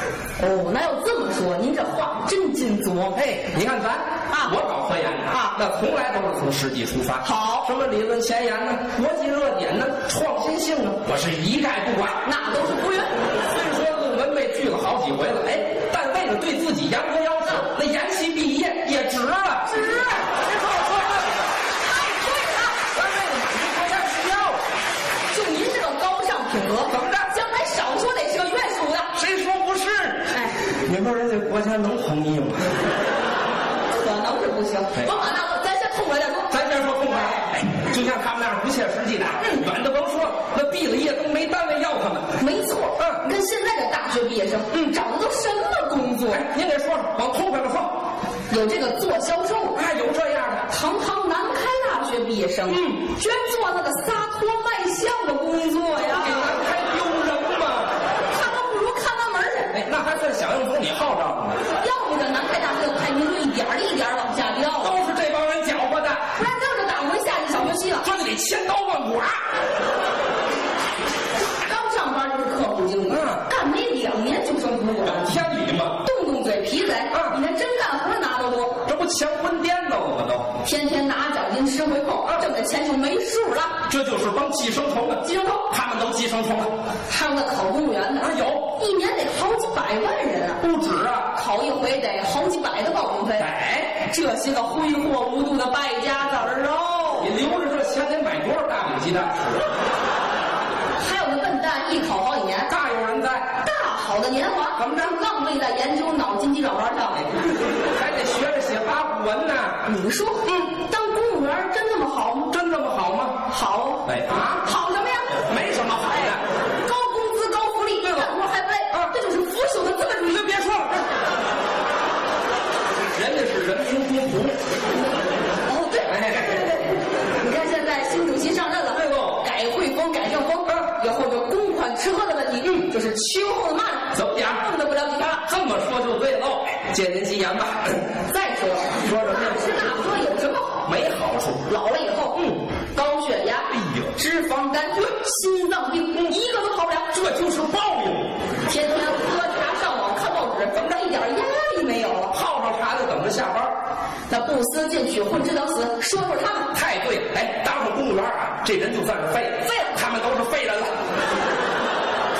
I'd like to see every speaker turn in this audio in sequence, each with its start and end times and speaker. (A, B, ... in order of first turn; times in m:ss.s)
0:00.4-0:03.2 A
0:03.2-0:12.2 B
0:04.3-0:04.6 A
0:05.3-0:05.6 A
0:07.2-0:07.7 A
0:12.2-0:13.1 A
0:13.5-0:21.5 B
0:19.6-0:20.3 A
0:21.8-0:22.8 A
0:22.9-0:24.6 B
0:25.3-0:29.1 A
0:26.9-0:27.3 B
0:29.2-0:30.3 B
0:30.3-0:30.7 A
0:30.8-0:32.7 B
0:33.9-0:36.6 A
0:36.5-0:42.3 B
0:39.4-0:39.7 A
0:42.4-0:46.4 A
0:46.3-0:48.0 B
0:48.5-0:49.8 A
0:49.7-0:50.7 B
0:50.7-0:56.6 A
0:52.7-0:53.0 B
0:56.0-0:58.0 B
0:58.3-0:59.9 A
0:59.8-1:01.6 B
1:01.8-1:05.0 A
1:04.8-1:06.2 B
1:06.4-1:08.1 A
1:08.0-1:09.4 B
1:11.5-1:15.3 A
1:13.1-1:13.4 B
1:15.0-1:16.0 B
1:16.0-1:18.8 A
1:18.9-1:20.5 B
1:20.6-1:23.8 A
1:23.9-1:26.7 B
1:25.2-1:25.6 A
1:27.1-1:30.6 A
1:28.2-1:28.7 B
1:30.6-1:31.3 B
1:31.3-1:33.5 A
1:33.4-1:34.0 B
1:34.0-1:37.3 A
1:37.2-1:39.7 B
1:41.0-1:42.7 A
1:42.7-1:43.5 B
1:43.6-1:47.3 A
1:44.8-1:45.1 B
1:48.0-1:49.8 B
1:49.8-1:52.5 A
1:52.5-1:53.4 B
1:53.5-1:54.0 A
1:54.1-1:54.7 B
1:54.6-1:55.5 A
1:55.5-1:56.4 B
1:56.8-2:00.6 A
1:58.0-1:58.3 B
2:00.3-2:01.0 B
2:03.1-2:04.6 B
2:05.7-2:15.5 A
2:06.1-2:06.6 B
2:08.9-2:09.4 B
2:14.1-2:14.6 B
2:15.4-2:18.0 B
2:18.2-2:20.8 A
2:19.0-2:19.9 B
2:20.9-2:21.7 B
2:21.6-2:22.4 A
2:22.3-2:22.6 B
2:22.9-2:27.1 A
2:23.7-2:24.2 B
2:27.1-2:28.3 B
2:28.7-2:32.3 A
2:32.3-2:33.8 B
2:34.3-2:36.7 A
2:36.7-2:41.0 B